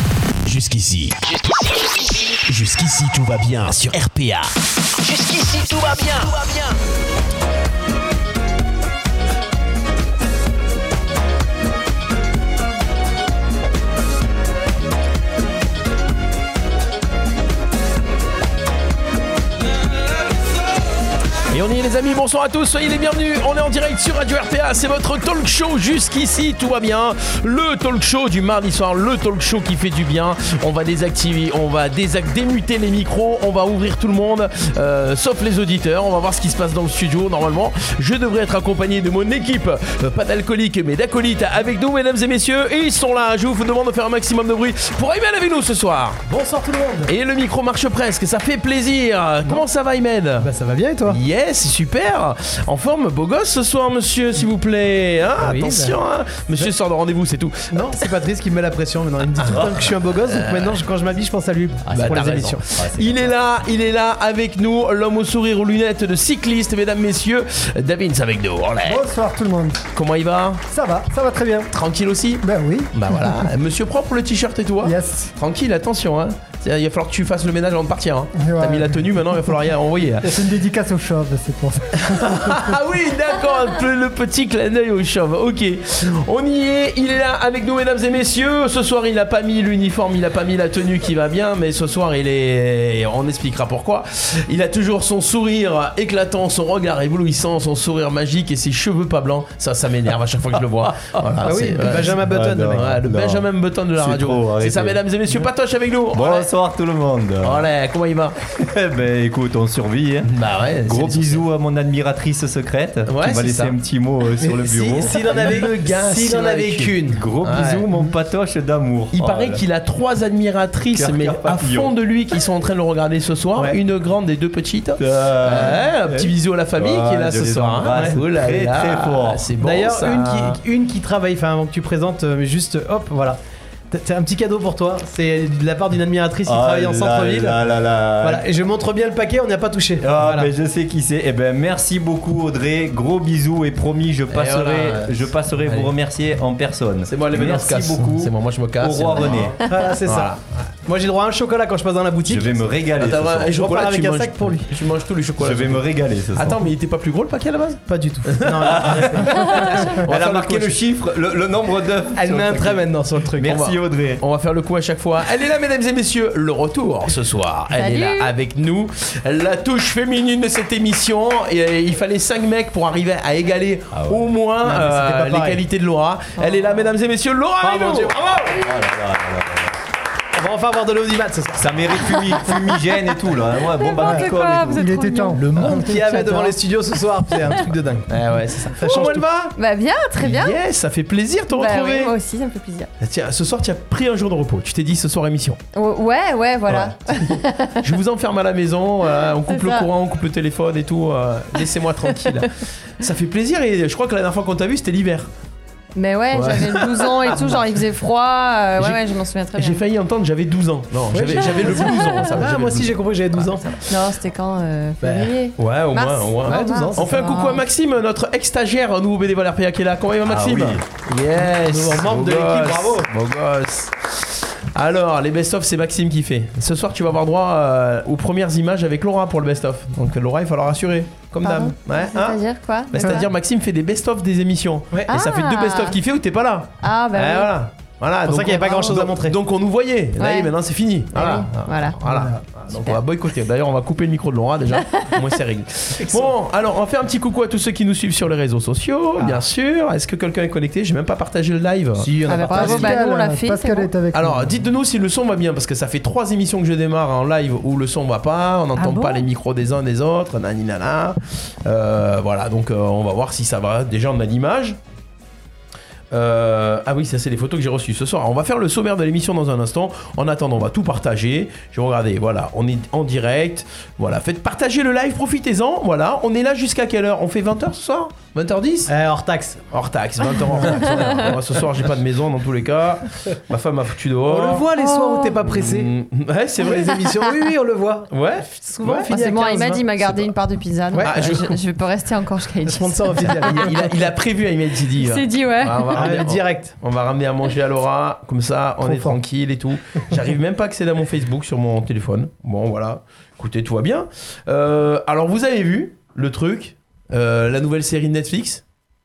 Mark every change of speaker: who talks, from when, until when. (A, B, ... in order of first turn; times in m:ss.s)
0:21.5-0:46.2 A
0:46.2-0:47.1 B
0:47.0-0:50.5 A
0:50.4-0:51.2 B
0:51.0-0:57.9 A
0:55.4-0:56.0 B
0:57.7-1:02.6 B
0:59.5-1:00.8 A
1:01.8-1:03.3 C
1:01.9-1:09.0 A
1:08.8-1:09.8 D
1:09.9-1:10.6 A
1:10.7-1:11.7 D
1:11.7-1:20.4 A
1:12.4-1:13.5 D
1:14.8-1:15.3 D
1:18.3-1:19.0 D
1:20.2-1:22.8 D
1:22.1-1:46.5 A
1:40.8-1:45.4 C
1:41.4-1:42.9 B
1:46.1-1:47.6 C
1:47.4-1:48.4 A
1:48.5-1:50.3 C
1:50.3-1:51.4 A
1:50.8-1:55.2 C
1:53.1-1:53.7 A
1:54.4-1:57.2 B
1:54.9-1:57.9 A
1:57.2-1:59.6 C
1:59.1-2:10.6 A
2:00.9-2:01.9 C
2:05.0-2:09.5 C
2:09.6-2:13.4 B
2:13.9-2:17.6 B
2:16.5-2:18.4 C
2:18.2-2:20.5 B
2:20.0-2:29.6 C
2:24.3-2:25.9 A
2:27.0-2:30.4 A
2:29.6-2:32.7 B
2:32.2-2:33.5 C
2:33.0-2:40.7 A
2:33.5-2:34.7 B
2:35.4-2:36.6 C
2:37.9-2:39.9 B
2:38.6-2:42.8 C
2:39.4-2:39.6 E
2:42.1-2:43.6 B
2:43.4-2:44.2 C
2:43.4-2:58.2 A
2:47.7-2:48.3 E
2:53.9-2:54.3 C
2:54.6-2:55.6 B
2:57.6-2:58.6 B
2:58.5-2:59.7 C
3:00.3-3:01.7 B
3:01.6-3:04.9 C
3:03.7-3:06.5 E
3:04.0-3:06.2 D
3:05.3-3:08.1 B
3:08.1-3:09.5 A
3:08.7-3:09.2 B
3:09.6-3:10.6 E
3:10.2-3:12.1 A
3:11.5-3:12.9 E
3:13.0-3:15.6 A
3:15.7-3:17.8 E
3:16.7-3:25.3 A
3:19.4-3:19.9 E
3:25.9-3:29.8 E
3:26.3-3:27.5 A
3:29.6-3:33.6 A
3:31.1-3:33.8 B
3:31.5-3:32.2 E
3:33.9-3:37.6 E
3:35.0-3:35.3 B
3:35.6-4:12.6 A
3:36.4-3:37.5 B
3:40.2-3:40.8 C
3:41.4-3:43.1 B
3:51.4-3:53.3 E
3:55.1-3:56.0 E
3:56.8-3:57.5 E
3:58.2-3:59.4 B
4:00.2-4:00.5 E
4:01.1-4:02.0 E
4:02.0-4:02.4 B
4:02.7-4:03.0 E
4:04.8-4:05.1 E
4:06.0-4:06.3 B
4:09.2-4:09.4 B
4:12.0-4:12.9 B
4:12.3-4:14.0 E
4:12.5-4:14.6 D
4:14.1-4:24.8 A
4:18.8-4:19.2 E
4:26.1-4:38.9 A
4:38.9-4:39.6 B
4:39.7-4:44.7 A
4:40.4-4:41.4 E
4:44.3-4:45.9 B
4:44.7-4:45.4 E
4:45.4-4:47.0 A
4:46.6-4:49.8 B
4:48.1-4:49.3 A
4:49.0-4:53.5 E
4:50.0-4:50.3 A
4:50.9-4:51.3 B
4:51.0-4:51.6 A
4:52.6-4:53.9 B
4:53.4-5:08.6 A
4:55.0-4:56.1 E
4:55.9-4:56.7 B
4:58.8-4:59.2 D